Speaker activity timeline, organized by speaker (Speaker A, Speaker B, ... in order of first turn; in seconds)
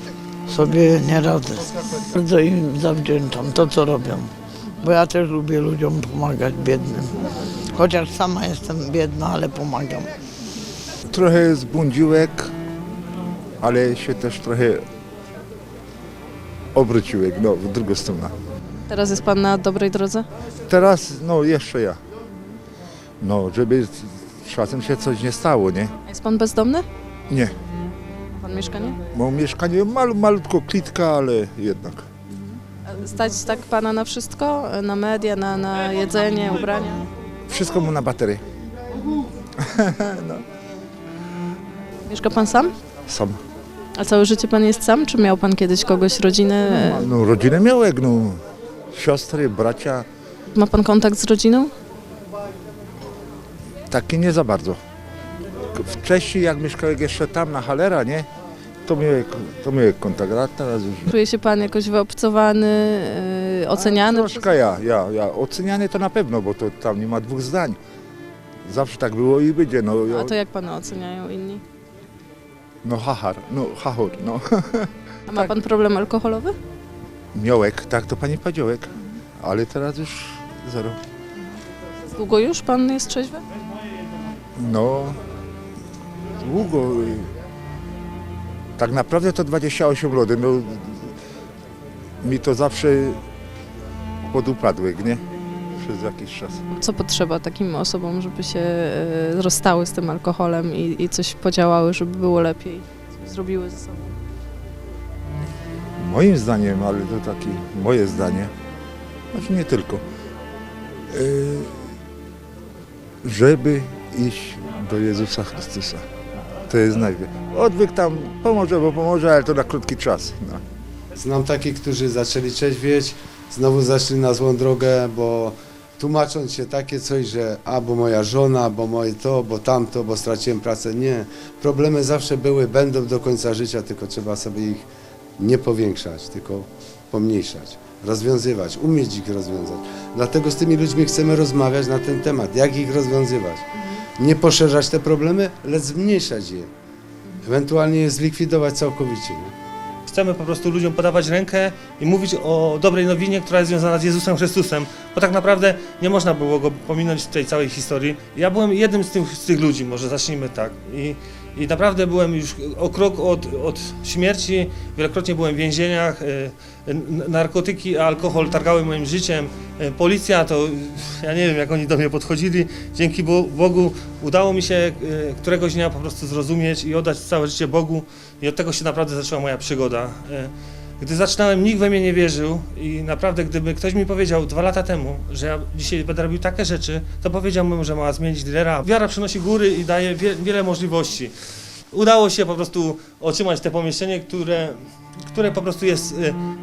Speaker A: 0.5-7.2, 7.7-10.1
Speaker B: 11.1-12.5, 13.6-14.8, 16.7-18.3, 20.7-22.0, 23.2-25.9, 29.1-32.0, 37.5-38.4, 39.6-40.4, 43.1-43.4, 46.7-48.4, 48.9-50.0, 53.9-54.8, 55.7-58.3, 58.9-61.1, 63.7-67.8, 68.7-70.3, 72.8-75.5, 77.3-81.0, 84.6-85.2, 86.4-87.3, 88.8-91.1, 92.2-93.2, 94.2-95.2, 95.8-96.6, 106.0-108.5, 109.3-110.0, 111.1-111.9, 113.2-116.0, 116.7-120.6
Speaker C: 18.9-20.3, 26.1-26.9, 28.3-29.0, 32.3-37.1, 42.1-42.7, 44.0-47.1, 50.5-51.7, 61.1-64.6, 70.1-71.6, 75.3-76.5, 82.1-83.4, 96.7-104.1
Speaker D: 121.2-134.8, 135.4-143.6, 144.2-146.7, 147.4-149.5
Speaker E: 150.1-191.3, 191.9-196.4